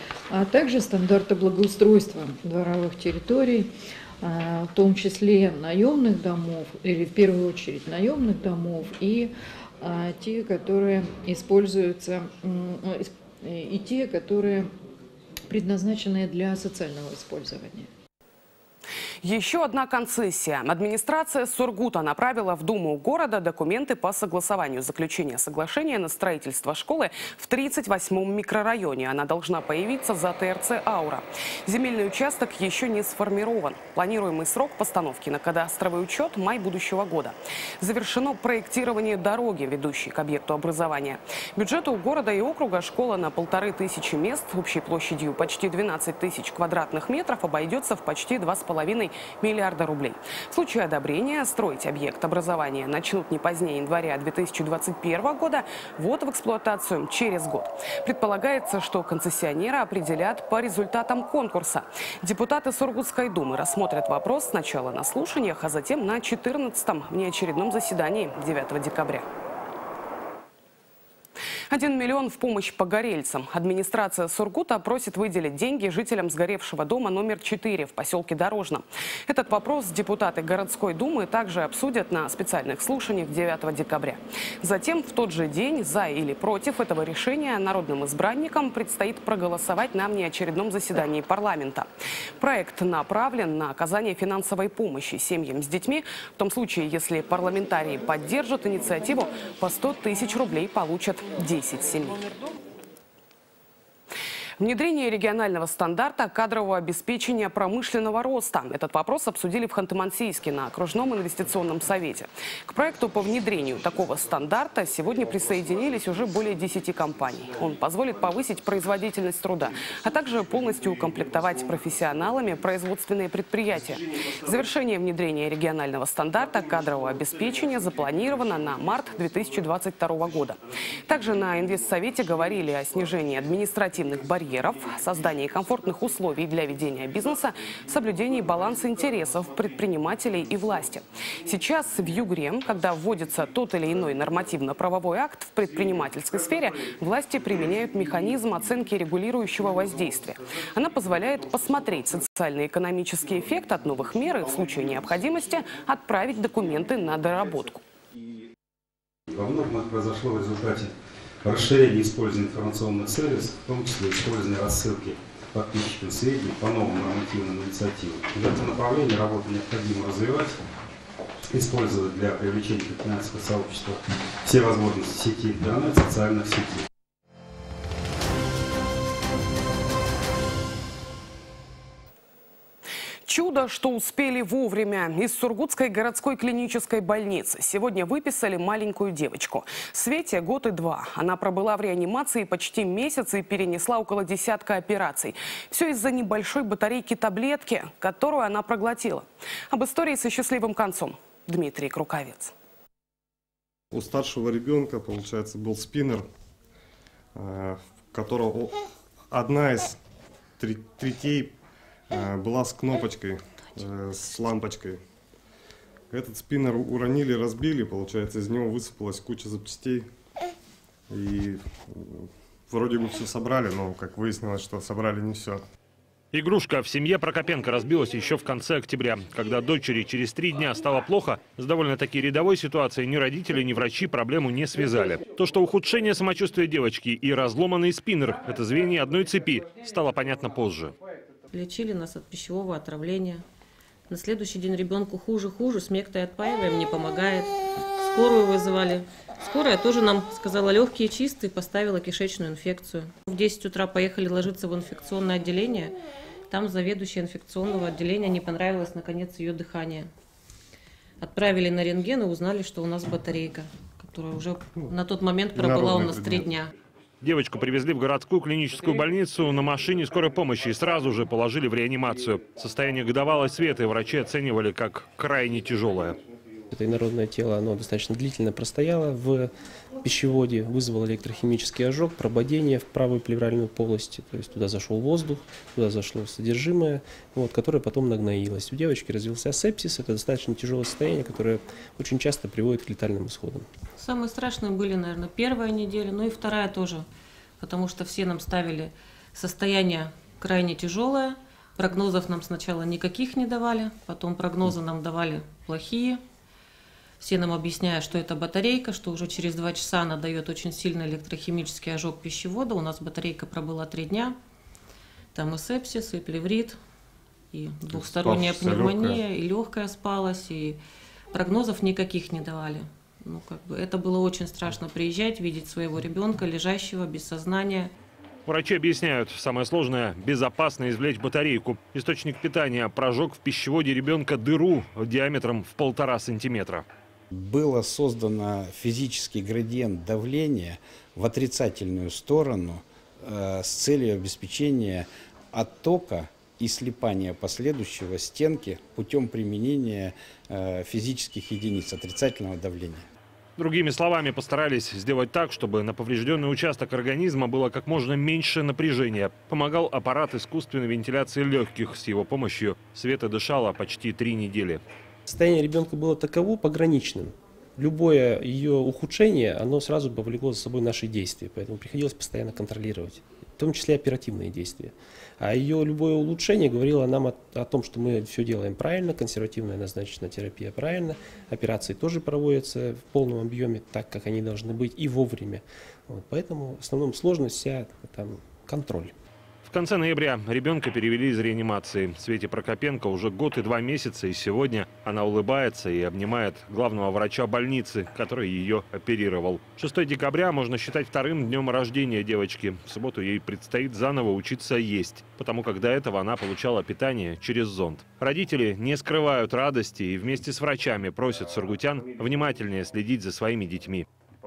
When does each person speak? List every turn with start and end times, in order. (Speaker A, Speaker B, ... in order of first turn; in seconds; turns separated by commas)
Speaker A: 0.3-14.7, Speaker A: 15.5-17.9, Speaker B: 19.2-69.2, Speaker B: 71.7-102.2, Speaker B: 104.6-157.8, Speaker C: 159.3-170.6, Speaker C: 171.4-176.8, Speaker B: 183.2-202.5, Speaker D: 203.9-206.2, Speaker D: 207.3-208.8, Speaker D: 209.3-210.0, Speaker D: 210.6-211.5, Speaker D: 212.1-215.0, Speaker D: 216.1-220.1, Speaker D: 221.1-225.6, Speaker E: 226.3-240.9, Speaker F: 241.5-243.4, Speaker F: 244.1-255.9, Speaker F: 256.5-260.1, Speaker F: 261.2-266.7, Speaker D: 265.5-266.6, Speaker E: 267.2-276.2, Speaker G: 276.7-293.7, Speaker F: 294.0-297.1, Speaker F: 297.6-306.2, Speaker F: 307.2-314.4, Speaker F: 315.3-316.8, Speaker F: 317.5-320.8, Speaker D: 317.9-319.2, Speaker F: 321.3-327.9, Speaker E: 328.4-336.8, Speaker H: 337.3-353.1, Speaker E: 353.6-364.8, Speaker G: 365.3-389.1, Speaker E: 389.6-414.0